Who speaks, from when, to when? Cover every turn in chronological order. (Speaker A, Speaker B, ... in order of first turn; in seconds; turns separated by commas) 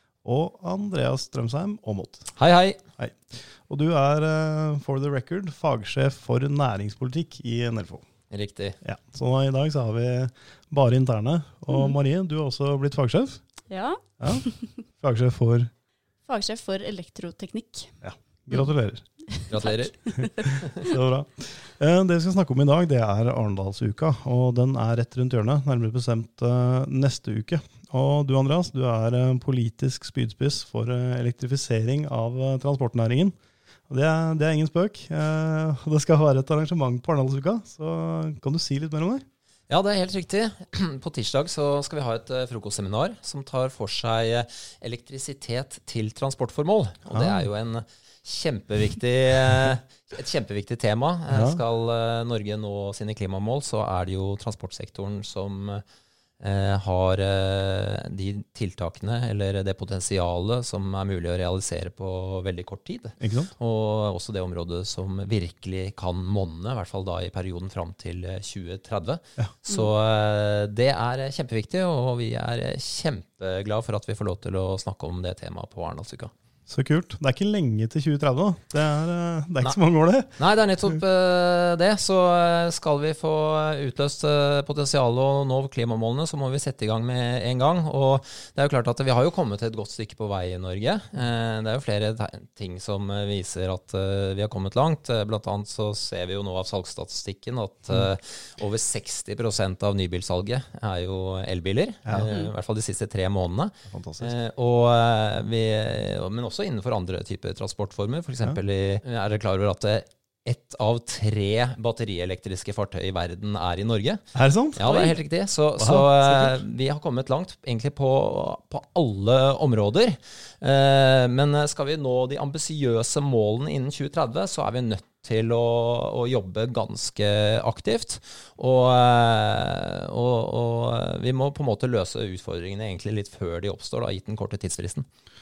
Speaker A: 0.2-2.3, Speaker B: 2.4-2.8, Speaker A: 3.0-8.1, Speaker B: 8.3-8.8, Speaker A: 8.8-13.4, Speaker C: 13.7-14.7, Speaker A: 14.9-15.7, Speaker C: 16.2-17.9, Speaker A: 18.0-19.0, Speaker C: 19.3-20.2, Speaker B: 19.5-20.7, Speaker A: 20.3-33.3, Speaker A: 33.9-39.2, Speaker B: 39.7-55.8, Speaker A: 47.1-47.4, Speaker A: 51.3-51.6, Speaker B: 56.4-76.3, Speaker A: 63.2-63.5, Speaker A: 76.7-80.4, Speaker B: 80.4-114.2, Speaker A: 102.0-102.3, Speaker A: 103.9-104.3, Speaker A: 114.3-115.2, Speaker B: 114.7-135.1, Speaker A: 115.8-116.6